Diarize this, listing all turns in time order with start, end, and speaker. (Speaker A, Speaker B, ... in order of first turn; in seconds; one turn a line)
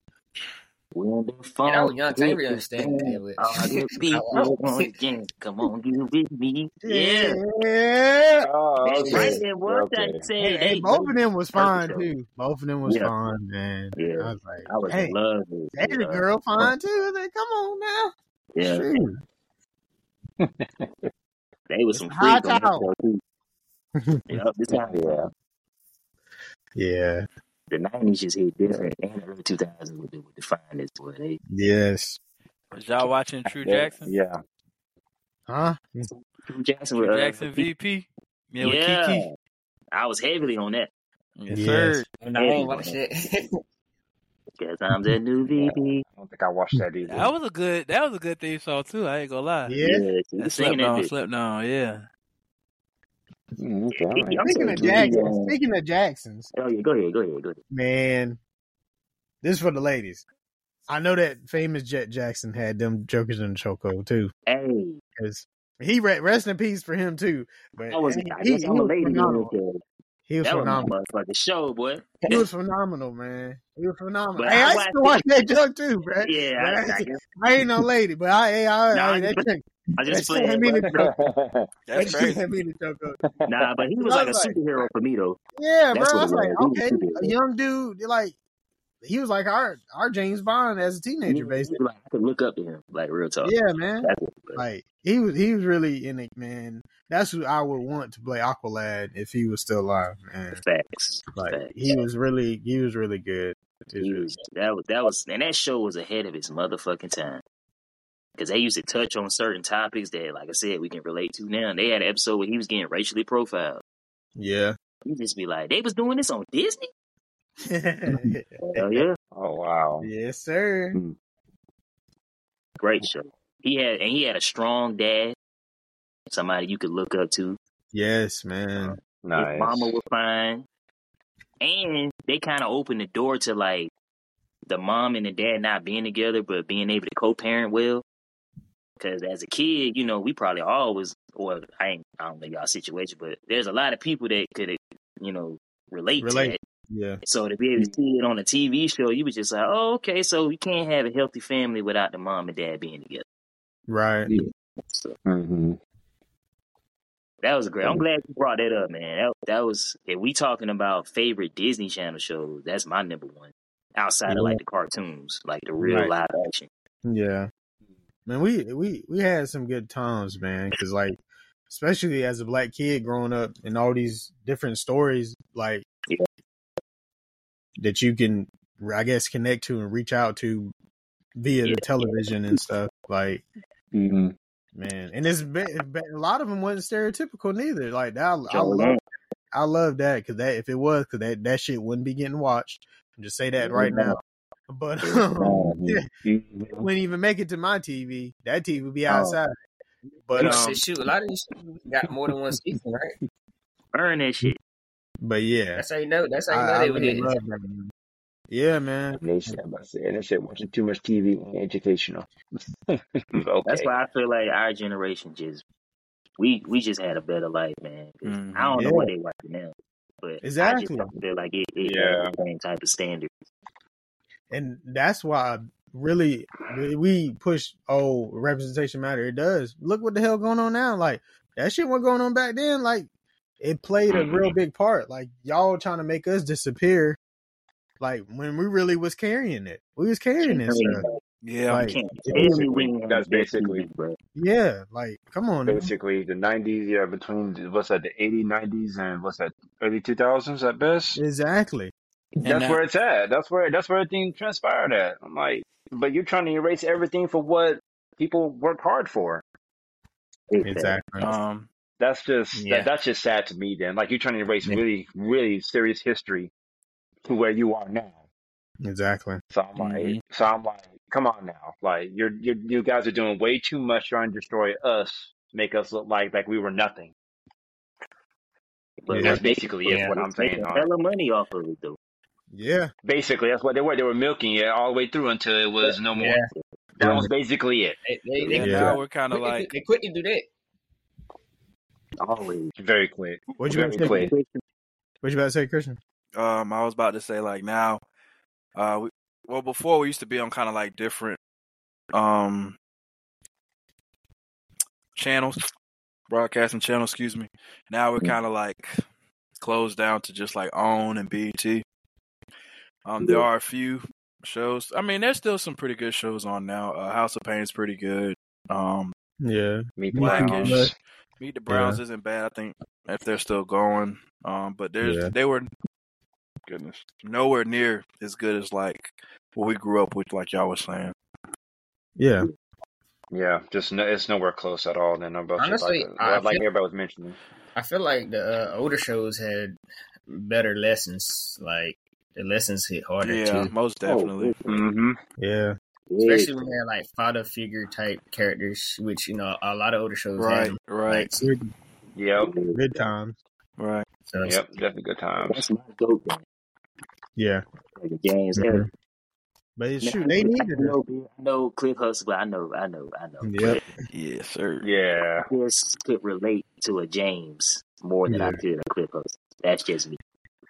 Speaker A: 0.9-7.4
Speaker B: 1.6-4.9
Speaker C: 6.8-8.5
Speaker D: 8.4-10.2
Speaker A: 8.8-12.1
Speaker B: 8.9-9.4
Speaker C: 9.1-9.4
Speaker C: 10.4-15.2
Speaker A: 12.8-13.1
Speaker A: 14.0-16.7
Speaker C: 15.8-19.2
Speaker A: 18.6-18.9
Speaker D: 20.4-21.1
Speaker A: 21.7-23.2
Speaker C: 21.9-22.9
Speaker C: 24.0-24.4
Speaker A: 24.3-25.3
Speaker D: 24.7-25.3
Speaker C: 26.8-27.2
Speaker A: 27.7-31.4
Speaker C: 31.5-32.2
Speaker E: 32.7-34.1
Speaker D: 33.6-34.4
Speaker C: 35.5-36.1
Speaker A: 36.1-37.7
Speaker E: 37.0-39.3
Speaker A: 38.6-39.3
Speaker A: 39.9-40.9
Speaker E: 41.4-42.1
Speaker C: 41.5-42.0
Speaker B: 42.2-43.5
Speaker A: 42.4-43.0
Speaker A: 44.6-46.0
Speaker D: 45.5-47.3
Speaker E: 47.1-49.7
Speaker C: 49.6-50.1
Speaker A: 49.8-51.1
Speaker E: 50.4-52.0
Speaker D: 53.5-55.3
Speaker A: 53.9-55.5
Speaker C: 54.4-56.5
Speaker A: 56.5-57.6
Speaker C: 57.7-58.4
Speaker C: 59.4-60.2
Speaker C: 60.9-64.3
Speaker A: 64.5-65.0
Speaker C: 65.2-69.5
Speaker A: 67.9-69.8
Speaker C: 70.3-70.9
Speaker A: 70.4-72.1
Speaker C: 72.3-81.1
Speaker A: 74.4-75.2
Speaker A: 76.2-77.2
Speaker A: 78.9-79.5
Speaker A: 80.0-81.1
Speaker D: 80.8-81.7
Speaker E: 81.9-82.4
Speaker C: 82.0-83.2
Speaker D: 83.2-83.6
Speaker A: 83.5-85.4
Speaker C: 84.0-84.9
Speaker C: 85.6-88.3
Speaker A: 85.9-87.3
Speaker C: 89.0-91.8
Speaker A: 91.3-94.7
Speaker C: 93.4-100.6
Speaker A: 100.5-102.0
Speaker C: 101.4-104.3
Speaker A: 104.0-107.4
Speaker A: 108.4-113.8
Speaker C: 114.4-114.8
Speaker A: 115.1-116.9
Speaker C: 117.7-119.0
Speaker A: 118.6-119.2
Speaker D: 119.3-120.1
Speaker C: 120.0-121.0
Speaker A: 122.8-125.3
Speaker A: 126.3-127.6
Speaker C: 127.9-129.0
Speaker D: 129.2-130.0
Speaker A: 129.4-130.7
Speaker A: 131.6-133.9
Speaker A: 134.7-138.1
Speaker A: 139.0-146.6
Speaker C: 146.2-147.2
Speaker A: 147.2-153.2
Speaker C: 153.9-154.3
Speaker A: 154.9-155.2
Speaker D: 155.3-155.8
Speaker A: 157.4-166.7
Speaker C: 164.3-164.6
Speaker C: 165.8-166.1
Speaker C: 167.1-167.5
Speaker C: 168.3-175.9
Speaker C: 177.8-180.7
Speaker C: 181.4-183.4
Speaker A: 181.6-182.1
Speaker D: 183.9-184.3
Speaker C: 184.8-189.0
Speaker A: 188.5-189.0
Speaker C: 189.5-194.2
Speaker A: 193.7-194.2
Speaker C: 194.7-196.1
Speaker A: 195.0-195.8
Speaker D: 195.4-196.9
Speaker C: 196.8-199.5
Speaker A: 199.1-199.4
Speaker C: 200.3-200.8
Speaker B: 200.4-203.2
Speaker A: 203.9-204.6
Speaker C: 205.2-205.8
Speaker B: 205.8-207.3
Speaker C: 206.5-207.9
Speaker C: 208.5-209.6
Speaker D: 209.2-212.3
Speaker D: 212.9-213.9
Speaker A: 213.7-215.6
Speaker A: 216.4-223.3
Speaker E: 218.2-218.8
Speaker C: 218.8-219.1
Speaker C: 220.4-221.1
Speaker D: 221.8-222.4
Speaker C: 224.5-233.1
Speaker C: 233.6-237.2
Speaker C: 238.0-241.0
Speaker A: 240.4-241.2
Speaker E: 241.4-241.9
Speaker C: 241.7-242.7
Speaker A: 241.7-244.2
Speaker D: 242.3-243.9
Speaker C: 244.4-245.9
Speaker D: 245.7-251.2
Speaker C: 251.2-251.9
Speaker E: 252.4-252.8
Speaker D: 252.4-259.4
Speaker A: 260.5-261.0
Speaker C: 260.6-261.3
Speaker E: 261.2-261.7
Speaker D: 262.0-266.5
Speaker B: 262.5-262.9
Speaker D: 267.2-268.2
Speaker C: 268.8-269.4
Speaker D: 269.5-277.1
Speaker E: 269.8-270.2
Speaker A: 279.0-282.0
Speaker C: 279.1-279.4
Speaker D: 279.2-280.9
Speaker B: 279.9-280.1
Speaker C: 282.5-282.9
Speaker D: 283.0-286.4
Speaker B: 285.8-287.3
Speaker D: 287.0-288.9
Speaker B: 288.1-290.5
Speaker E: 288.5-289.7
Speaker C: 288.6-288.9
Speaker A: 292.2-292.7
Speaker D: 292.8-294.3
Speaker C: 293.6-294.3
Speaker A: 293.7-294.6
Speaker C: 295.2-296.0
Speaker E: 296.4-298.0
Speaker E: 298.8-301.4
Speaker E: 302.1-302.8
Speaker E: 305.1-305.6
Speaker E: 306.3-309.0
Speaker E: 309.6-311.8
Speaker E: 313.1-319.1
Speaker C: 319.4-320.9
Speaker D: 320.0-320.9
Speaker E: 320.2-325.7
Speaker C: 321.7-322.0
Speaker C: 325.0-325.3
Speaker E: 326.7-331.1
Speaker C: 332.2-332.5
Speaker D: 333.3-337.4
Speaker B: 335.6-336.6
Speaker B: 337.8-343.7
Speaker E: 343.2-344.6
Speaker A: 344.0-344.8
Speaker D: 344.6-345.2
Speaker C: 345.4-345.8
Speaker A: 346.1-346.7
Speaker B: 346.2-351.5
Speaker E: 350.4-351.3
Speaker C: 351.4-351.7
Speaker D: 352.1-352.6
Speaker A: 352.4-353.1
Speaker C: 352.7-353.4
Speaker E: 353.8-354.1
Speaker B: 354.3-354.6
Speaker D: 354.4-355.7
Speaker A: 355.4-356.4
Speaker C: 357.4-357.6
Speaker A: 358.0-358.9
Speaker C: 358.6-358.9
Speaker C: 359.8-361.0
Speaker A: 360.0-363.8
Speaker C: 363.4-363.9
Speaker E: 364.1-364.9
Speaker D: 364.8-365.5
Speaker A: 365.5-370.2
Speaker C: 368.3-368.6